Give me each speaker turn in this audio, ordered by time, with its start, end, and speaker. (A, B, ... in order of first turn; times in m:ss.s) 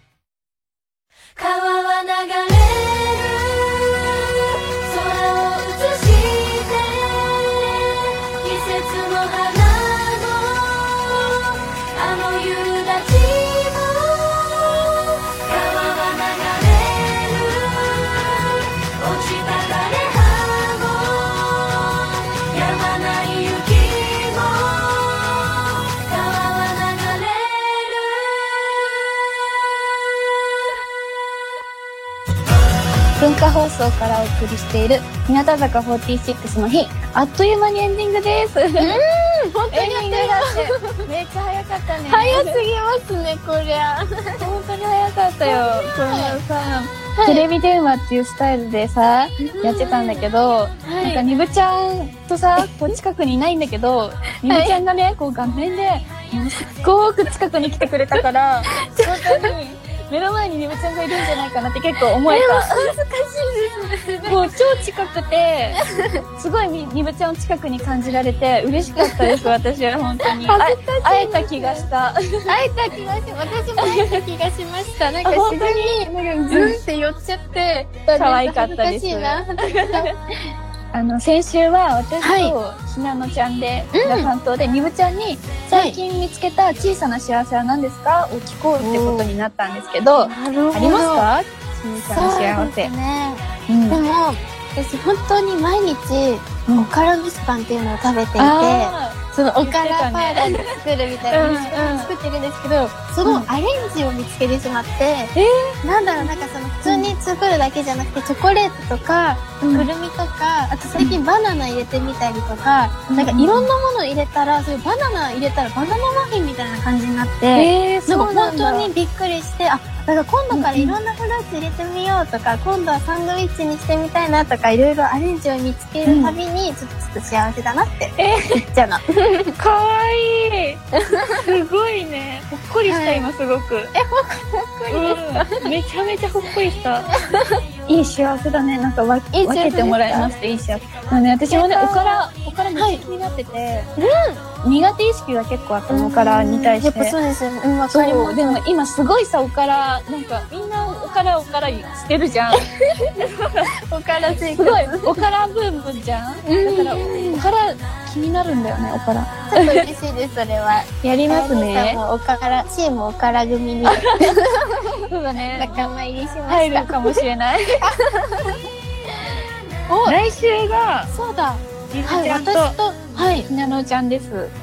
0:01.4-0:29.0 A
0:33.2-0:39.0 B
0:38.8-0:41.0 C
0:39.7-0:42.6 B
0:42.1-0:44.4 C
0:44.4-1:02.9 B
0:45.4-0:46.4 C
0:47.2-0:47.5 C
0:49.4-0:50.3 C
0:50.8-0:51.2 C
0:52.6-0:52.9 C
0:54.5-0:54.8 C
0:58.1-0:59.6 C
1:02.3-1:04.5 C
1:04.3-1:05.8 B
1:06.4-1:12.5 B
1:09.0-1:09.4 C
1:10.3-1:11.9 C
1:12.5-1:20.2 C
1:13.8-1:14.2 B
1:15.2-1:16.8 B
1:18.2-1:20.1 B
1:20.9-1:32.9 B
1:22.2-1:22.6 C
1:24.0-1:24.3 C
1:25.7-1:26.0 C
1:28.8-1:29.3 C
1:30.2-1:31.3 C
1:32.1-2:09.6 C
1:33.7-1:34.0 B
1:38.4-1:40.6 B
1:41.3-1:42.1 B
1:43.2-1:43.5 B
1:45.4-1:46.3 B
1:46.8-1:47.1 B
1:49.6-1:49.9 B
1:53.1-1:53.7 B
1:57.5-1:58.9 B
2:00.5-2:01.0 B
2:06.0-2:06.4 B
2:08.2-2:08.6 B
2:09.6-2:10.8 B
2:11.1-2:11.5 C
2:11.4-2:13.9 B
2:12.8-2:13.3 C
2:13.9-2:15.7 C
2:14.9-2:17.1 B
2:17.3-2:17.6 C
2:17.9-2:23.9 B
2:19.3-2:20.3 C
2:21.5-2:23.0 C
2:24.0-2:24.4 C
2:24.6-2:27.2 B
2:25.9-2:28.6 C
2:27.9-2:33.7 B
2:32.6-2:33.2 C
2:33.9-2:35.3 C
2:34.6-2:39.9 B
2:36.4-2:37.5 C
2:39.5-2:47.2 C
2:41.0-2:42.0 B
2:43.8-2:44.4 B
2:45.1-2:45.8 B
2:46.5-2:48.0 B
2:47.8-2:48.6 C
2:49.9-2:50.2 C
2:50.0-2:51.1 B
2:51.1-2:53.5 C
2:51.9-2:52.8 B
2:53.5-2:54.5 B